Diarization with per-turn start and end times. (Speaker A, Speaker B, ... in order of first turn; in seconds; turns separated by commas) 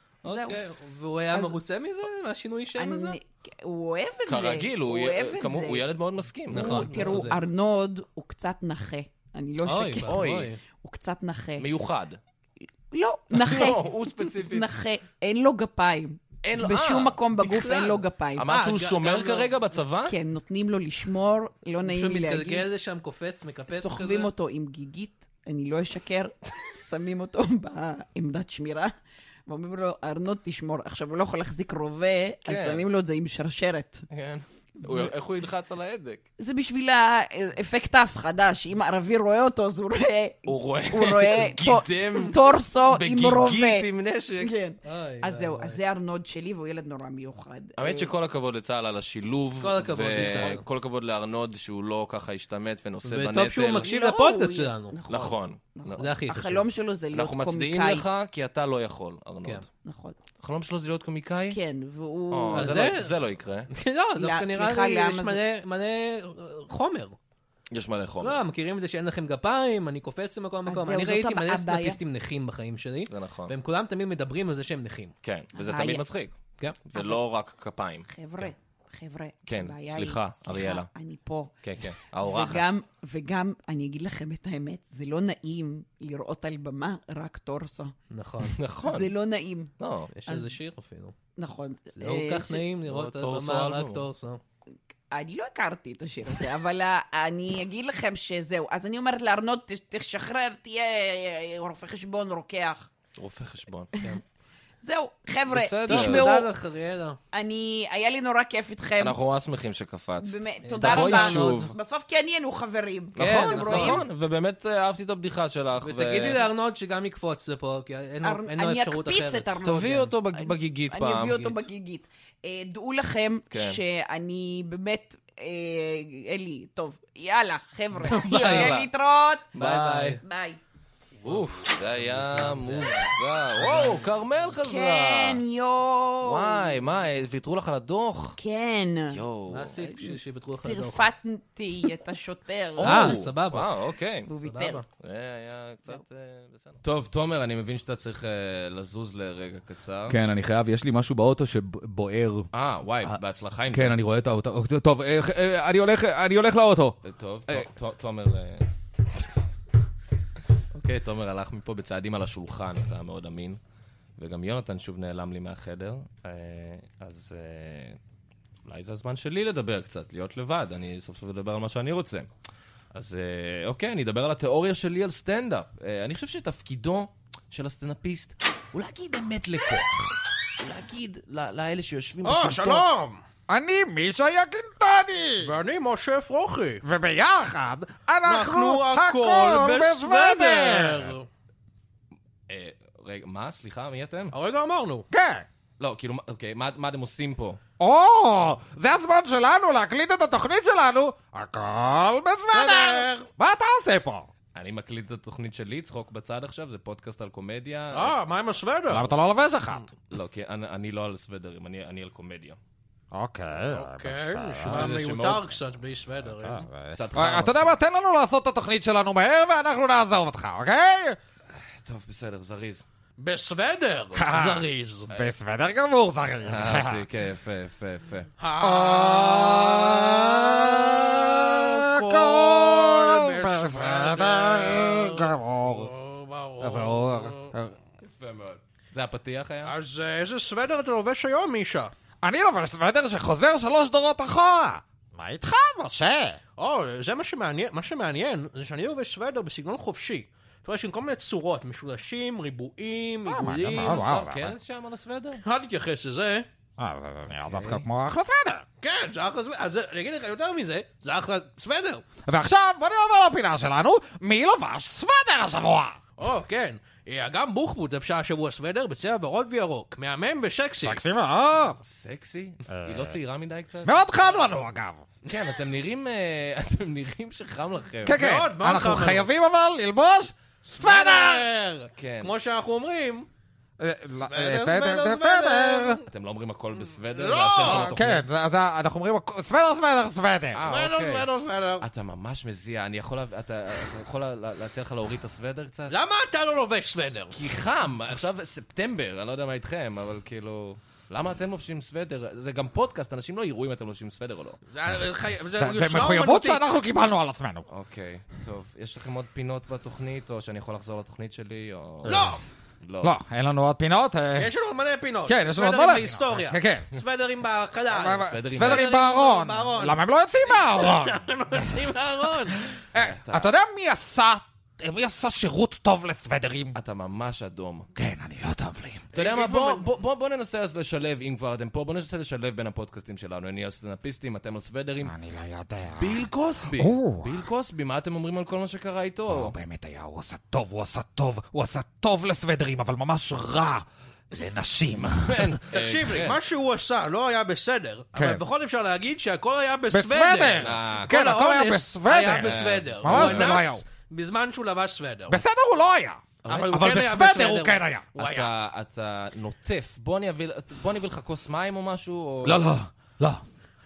Speaker A: 0.2-3.2, Speaker B: 0.2-0.6, Speaker B: 1.3-1.6, Speaker B: 2.7-5.8, Speaker C: 4.2-7.2, Speaker A: 6.5-7.4, Speaker B: 6.5-10.2, Speaker A: 9.6-10.6, Speaker C: 10.0-10.5, Speaker B: 10.7-11.7, Speaker C: 11.6-12.2, Speaker B: 12.9-18.5, Speaker C: 13.3-14.7, Speaker C: 16.4-17.2, Speaker A: 17.4-19.5, Speaker C: 18.4-20.1, Speaker B: 20.1-22.7, Speaker A: 21.8-24.3, Speaker B: 23.7-28.9, Speaker B: 29.5-34.0, Speaker C: 32.5-32.8, Speaker C: 34.1-36.2, Speaker B: 34.8-35.1, Speaker B: 36.4-43.9, Speaker C: 40.5-44.5, Speaker B: 44.4-48.1, Speaker A: 44.8-45.8, Speaker C: 47.8-53.9, Speaker A: 49.6-50.6, Speaker A: 53.0-54.9, Speaker B: 53.8-58.0, Speaker C: 55.1-56.1, Speaker A: 56.0-56.6, Speaker C: 57.1-59.7, Speaker B: 59.8-60.1, Speaker C: 60.4-61.6, Speaker B: 61.5-63.0, Speaker C: 62.3-63.7, Speaker A: 62.5-63.1, Speaker A: 63.7-67.2, Speaker B: 64.2-65.4, Speaker C: 67.7-68.4, Speaker A: 68.2-75.1, Speaker B: 70.7-72.0, Speaker C: 73.1-73.5, Speaker C: 75.2-78.5, Speaker B: 75.5-76.0, Speaker B: 76.9-77.2, Speaker B: 78.1-81.5, Speaker C: 79.5-80.9, Speaker C: 81.6-82.6, Speaker B: 82.2-87.9, Speaker A: 88.1-88.5, Speaker C: 88.5-89.1, Speaker B: 88.8-89.7, Speaker C: 89.8-90.1, Speaker A: 90.1-91.2, Speaker B: 90.3-90.6, Speaker B: 91.4-92.7, Speaker A: 91.9-94.4, Speaker C: 92.8-94.1, Speaker B: 95.1-102.9, Speaker C: 103.2-104.0, Speaker B: 104.8-106.5, Speaker C: 105.5-106.3, Speaker A: 105.9-107.2, Speaker B: 107.3-109.2, Speaker C: 109.0-111.7, Speaker B: 110.2-114.0, Speaker A: 110.6-111.7, Speaker C: 113.2-116.5, Speaker A: 113.2-114.0, Speaker A: 115.8-120.0, Speaker B: 118.2-129.5, Speaker C: 119.6-121.6, Speaker C: 123.5-123.8, Speaker A: 128.1-128.8, Speaker C: 128.1-128.9, Speaker C: 129.5-130.2, Speaker A: 129.6-130.2, Speaker B: 130.2-130.6, Speaker A: 131.2-134.1, Speaker C: 131.2-135.4, Speaker B: 134.6-136.8, Speaker C: 136.2-138.4, Speaker B: 138.4-139.2, Speaker C: 139.1-139.8, Speaker A: 139.5-141.1, Speaker B: 139.9-143.2, Speaker C: 142.8-144.3, Speaker A: 142.8-143.7, Speaker B: 144.3-144.8, Speaker A: 144.4-144.8, Speaker C: 145.0-150.2, Speaker D: 150.1-152.4, Speaker C: 152.5-154.0, Speaker D: 153.7-156.9, Speaker C: 157.0-158.7, Speaker C: 160.7-163.6, Speaker C: 164.2-168.0, Speaker C: 168.6-172.3, Speaker C: 172.9-182.8, Speaker A: 182.2-183.2, Speaker E: 183.5-185.5, Speaker A: 185.4-186.8, Speaker E: 186.8-191.1, Speaker A: 188.2-191.3, Speaker C: 192.5-194.3, Speaker A: 194.3-195.1, Speaker E: 195.1-195.4, Speaker C: 195.8-197.6, Speaker E: 197.8-204.3, Speaker A: 202.5-203.3, Speaker C: 204.5-208.2, Speaker A: 207.9-209.1, Speaker E: 208.9-209.9, Speaker C: 210.1-212.6, Speaker E: 213.1-214.9, Speaker A: 213.7-216.7, Speaker C: 214.6-215.5, Speaker E: 216.3-221.2, Speaker C: 216.9-217.8, Speaker C: 221.5-222.8, Speaker A: 223.2-225.1, Speaker E: 224.1-227.0, Speaker C: 226.4-228.3, Speaker A: 228.4-237.5, Speaker E: 228.6-235.9, Speaker E: 236.6-237.7, Speaker C: 238.0-239.7, Speaker A: 239.6-241.9, Speaker E: 242.2-246.4, Speaker A: 246.6-254.0, Speaker E: 253.2-254.5, Speaker C: 253.6-255.4, Speaker A: 255.4-256.5, Speaker E: 256.8-258.6, Speaker A: 258.8-262.0, Speaker E: 262.3-266.0, Speaker A: 266.2-271.0, Speaker E: 270.8-271.8, Speaker C: 271.8-274.6, Speaker E: 272.7-273.1, Speaker E: 273.8-275.1, Speaker C: 275.2-278.2, Speaker E: 278.0-281.5, Speaker A: 278.1-279.3, Speaker A: 280.6-283.3, Speaker C: 282.0-282.3, Speaker E: 283.8-286.0, Speaker A: 284.2-286.0, Speaker C: 286.1-288.2, Speaker A: 287.1-287.9, Speaker E: 287.6-290.6, Speaker C: 290.5-291.3, Speaker A: 290.6-291.8, Speaker C: 291.8-295.9, Speaker A: 295.9-297.3, Speaker C: 297.3-304.6, Speaker A: 304.7-306.6, Speaker E: 305.5-307.6, Speaker C: 307.7-313.2, Speaker A: 312.1-312.4, Speaker E: 313.0-314.5, Speaker A: 314.4-322.6, Speaker E: 315.2-316.9, Speaker E: 317.9-326.7, Speaker C: 318.3-319.0, Speaker C: 322.9-323.5, Speaker C: 326.7-327.9, Speaker E: 327.9-329.1, Speaker A: 329.1-329.9, Speaker C: 329.1-335.1, Speaker E: 335.0-337.4, Speaker C: 335.9-339.6, Speaker E: 339.3-345.5, Speaker C: 344.9-346.4, Speaker A: 345.7-355.4, Speaker E: 348.1-348.4, Speaker E: 349.9-353.8, Speaker C: 350.6-351.1, Speaker C: 352.4-353.6, Speaker E: 355.3-358.1, Speaker C: 356.4-356.8, Speaker A: 356.5-358.5, Speaker C: 358.1-362.6, Speaker E: 362.4-363.4